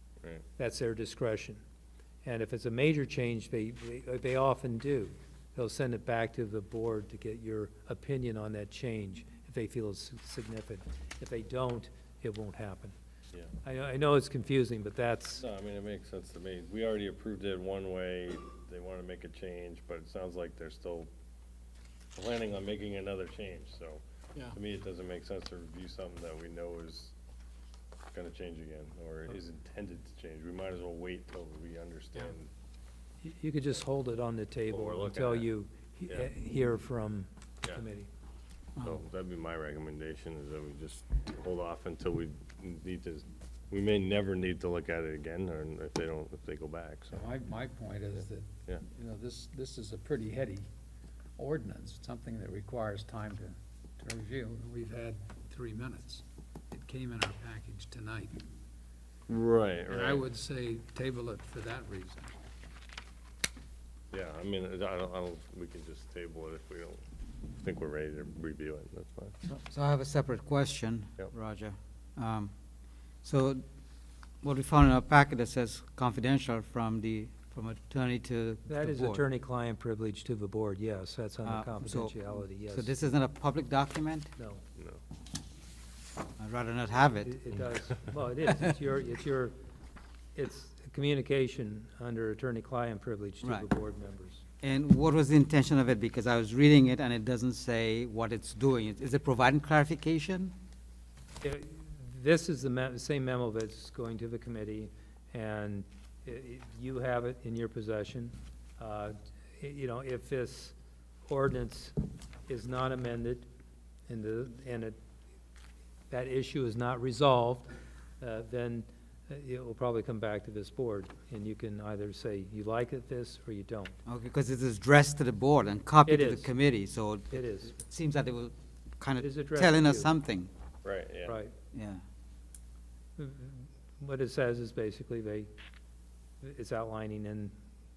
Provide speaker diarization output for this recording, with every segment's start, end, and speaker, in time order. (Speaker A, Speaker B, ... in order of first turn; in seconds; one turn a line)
Speaker A: 0.6-1.6
Speaker A: 2.2-12.9
Speaker A: 13.6-15.4
Speaker B: 15.4-21.1
Speaker B: 22.2-27.1
Speaker B: 28.1-32.5
Speaker A: 33.2-38.1
Speaker B: 34.7-35.5
Speaker B: 38.8-47.4
Speaker C: 47.1-50.7
Speaker C: 51.4-58.4
Speaker B: 59.3-60.3
Speaker C: 59.9-62.3
Speaker B: 64.1-67.0
Speaker B: 67.6-69.3
Speaker D: 69.5-72.5
Speaker D: 73.2-73.6
Speaker D: 74.4-79.2
Speaker A: 78.7-82.9
Speaker D: 81.5-84.3
Speaker A: 84.4-84.6
Speaker D: 86.4-87.4
Speaker A: 87.2-89.5
Speaker A: 90.3-94.4
Speaker D: 94.6-100.5
Speaker A: 101.4-110.8
Speaker A: 111.3-112.0
Speaker A: 112.5-113.5
Speaker A: 114.1-115.0
Speaker A: 116.1-124.0
Speaker D: 124.1-130.5
Speaker A: 126.1-126.5
Speaker A: 127.3-127.8
Speaker A: 129.2-130.1
Speaker B: 130.8-131.4
Speaker A: 131.3-131.5
Speaker D: 131.7-132.0
Speaker A: 133.2-135.5
Speaker A: 136.4-137.6